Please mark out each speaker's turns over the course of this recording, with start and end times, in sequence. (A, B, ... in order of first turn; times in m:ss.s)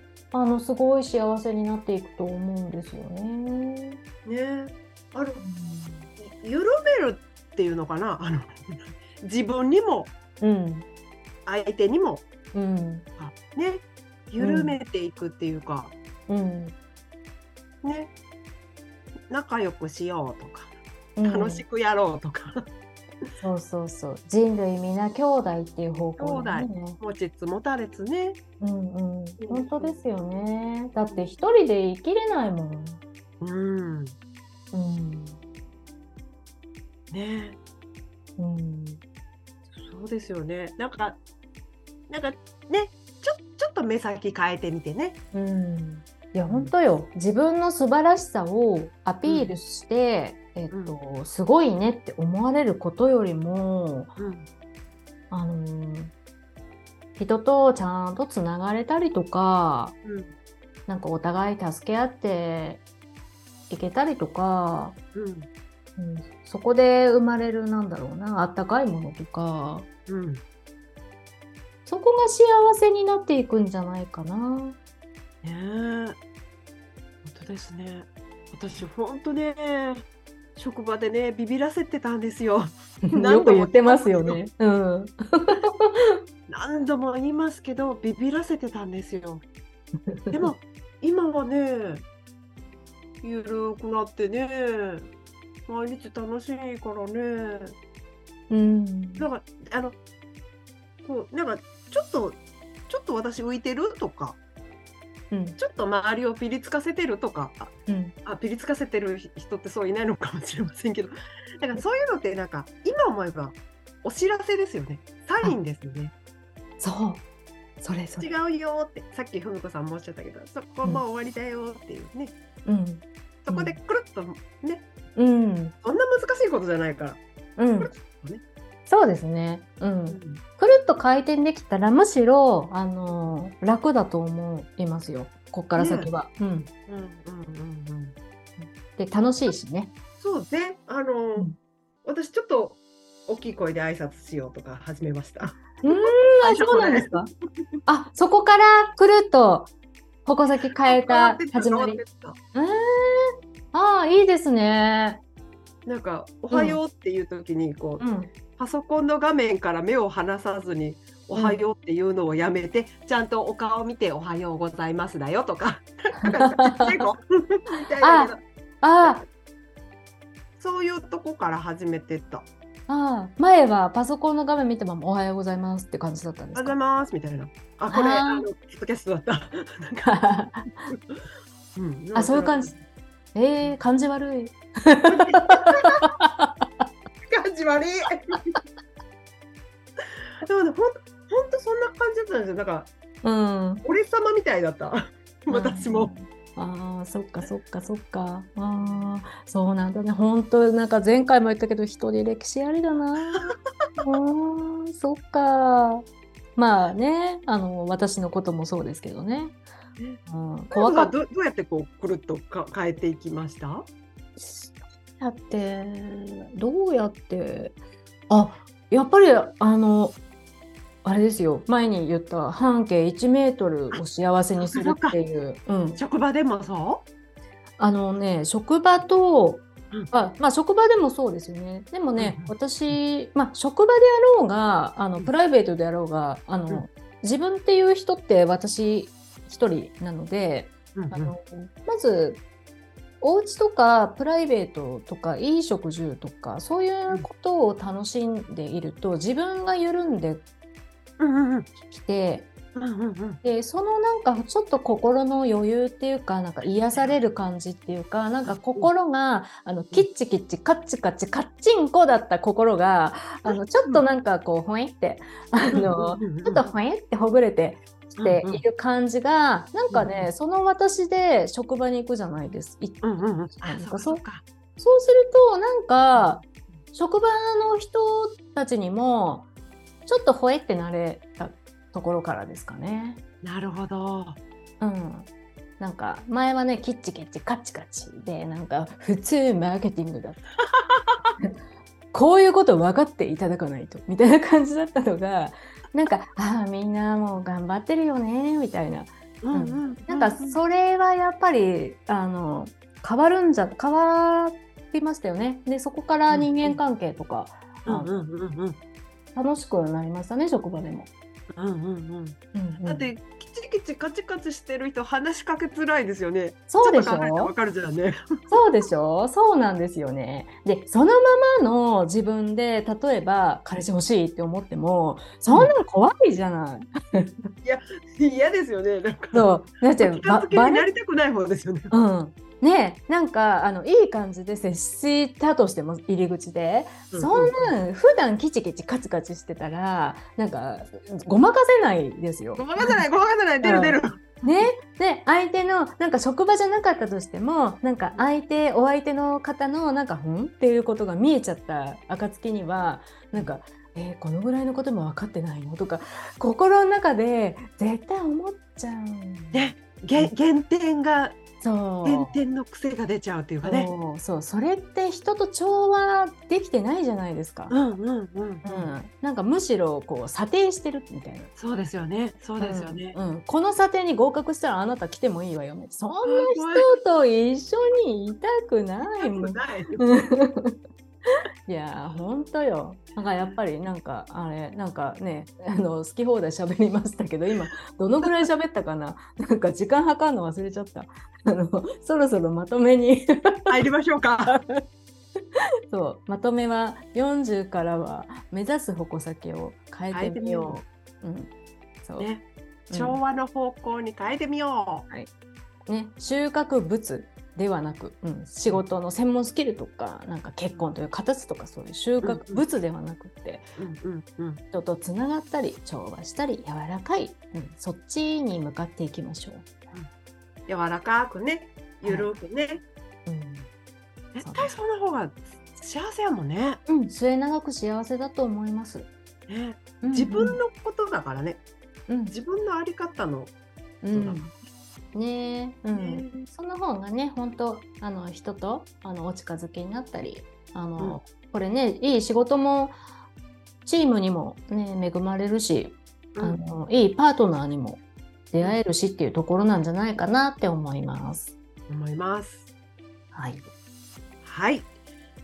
0:00.3-0:04.0 A
0:04.2-0:05.4 B
0:05.4-0:06.0 A
0:06.2-0:10.1 B
0:10.4-0:10.8 A
0:11.4-0:12.3 B
0:12.5-0:13.0 A
0:13.2-0:15.9 B
0:14.4-0:14.8 A
0:16.3-0:16.8 A
0:17.8-0:18.1 B
0:19.3-0:20.7 B
0:21.2-0:21.6 A
0:21.2-0:22.7 B
0:23.4-0:27.0 A
0:26.2-0:28.4 B
0:28.6-0:33.0 A
0:29.4-0:30.0 B
0:33.4-0:34.1 B
0:34.7-0:35.4 A
0:37.1-0:37.6 B
0:38.4-0:39.0 A
0:39.7-0:41.2 B
0:42.1-0:45.2 B
0:45.3-0:54.1 A
0:46.5-0:46.7 B
0:49.2-0:49.6 B
0:50.7-0:51.0 B
0:54.2-0:54.5 B
0:55.3-0:56.1 A
0:57.2-1:00.0 A
1:00.0-1:00.3 B
1:00.9-1:02.8 A
1:03.7-1:05.0 A
1:05.1-1:05.5 B
1:06.0-1:09.9 A
1:10.1-1:10.4 B
1:11.8-1:14.8 A
1:15.4-1:16.2 B
1:17.2-1:20.0 B
1:20.6-1:24.4 B
1:23.0-1:26.0 A
1:26.5-1:29.4 B
1:30.1-1:30.5 A
1:30.3-1:32.0 B
1:33.2-1:35.1 B
1:35.7-1:37.8 B
1:38.5-1:39.3 A
1:39.2-1:40.0 B
1:41.0-1:44.4 B
1:45.3-1:45.6 A
1:45.6-1:47.7 B
1:47.9-1:48.1 A
1:48.2-1:56.1 B
1:56.8-1:57.2 A
1:57.8-1:58.3 A
1:58.2-2:02.3 B
2:02.6-2:03.8 A
2:03.4-2:04.8 B
2:05.2-2:05.7 A
2:05.8-2:07.2 B
2:07.6-2:07.9 A
2:07.8-2:08.4 B
2:08.9-2:16.7 A
2:10.1-2:10.4 B
2:15.8-2:16.1 B
2:16.9-2:18.1 B
2:18.6-2:19.9 A
2:20.2-2:21.5 B
2:22.0-2:27.2 B
2:25.8-2:27.3 A
2:27.9-2:29.7 A
2:30.2-2:32.0 A
2:30.8-2:32.4 B
2:32.5-2:35.2 A
2:35.8-2:38.0 B
2:36.5-2:36.8 A
2:38.0-2:38.3 A
2:38.6-2:48.4 B
2:41.3-2:41.6 A
2:46.2-2:47.0 A
2:48.0-2:49.2 A
2:50.6-2:52.4 B
2:52.9-2:56.7 A
2:56.5-3:00.1 B
2:57.9-2:58.5 A
3:00.0-3:00.9 A
3:00.9-3:01.2 B
3:01.8-3:02.8 B
3:02.2-3:02.7 A
3:03.3-3:06.6 A
3:05.0-3:06.0 B
3:07.3-3:08.4 B
3:10.4-3:12.9 B
3:13.2-3:13.8 A
3:13.8-3:16.1 B
3:15.5-3:26.0 A
3:18.8-3:19.1 B
3:26.6-3:29.6 A
3:30.0-3:33.9 B
3:30.2-3:31.1 A
3:34.4-3:37.8 A
3:38.3-3:40.2 A
3:41.0-3:46.0 A
3:44.6-3:45.2 B
3:46.0-3:47.0 B
3:47.8-4:02.4 A
3:52.2-3:53.0 B
4:00.9-4:01.3 B
4:03.2-4:10.4 A
4:11.2-4:11.7 B
4:11.9-4:12.5 A
4:12.8-4:13.4 B
4:13.4-4:33.0 A
4:16.6-4:17.2 B
4:18.4-4:18.9 B
4:23.4-4:24.0 B
4:25.7-4:26.7 B
4:28.2-4:28.6 B
4:29.9-4:30.3 B
4:33.0-4:34.4 B
4:33.6-4:34.2 A
4:34.8-4:39.5 A
4:36.1-4:36.4 B
4:40.0-4:43.2 A
4:43.4-4:44.4 B
4:44.8-4:50.5 A
4:52.1-5:08.1 A
4:59.4-5:00.6 B
5:06.3-5:06.8 B
5:07.8-5:08.8 B
5:09.3-5:11.1 A
5:11.5-5:18.2 B
5:12.5-5:13.1 A
5:16.7-5:17.5 A
5:18.5-5:27.3 A
5:27.6-5:31.9 B
5:29.3-5:30.9 A
5:31.9-5:43.0 A
5:37.1-5:37.7 B
5:42.6-5:44.2 B
5:43.6-6:00.3 A
5:59.5-6:01.4 B
6:01.6-6:02.4 A
6:02.0-6:03.9 B
6:03.6-6:07.7 A
6:07.7-6:08.9 B
6:08.6-6:11.5 A
6:11.6-6:13.2 B
6:12.6-6:20.8 A
6:16.2-6:16.9 B
6:19.2-6:20.0 B
6:21.6-6:33.7 A
6:33.7-6:34.6 B
6:34.5-6:34.8 A
6:35.9-6:41.5 A
6:40.1-6:40.8 B
6:42.0-6:42.3 A
6:42.2-6:45.1 B
6:42.9-6:43.2 A
6:45.9-6:53.7 A
6:52.2-6:52.6 B
6:53.8-6:54.6 B
6:54.7-6:59.7 A
7:00.7-7:02.8 B
7:03.2-7:03.7 A
7:04.3-7:06.8 B
7:04.4-7:04.7 A
7:06.9-7:09.1 A
7:09.5-7:11.6 B
7:10.0-7:10.6 A
7:12.1-7:12.3 A
7:12.3-7:13.5 B
7:14.0-7:14.5 A
7:14.1-7:14.6 B
7:15.1-7:23.0 A
7:15.9-7:16.4 B
7:23.8-7:31.5 A
7:31.9-7:32.7 B
7:33.3-7:33.6 A
7:34.4-7:34.9 B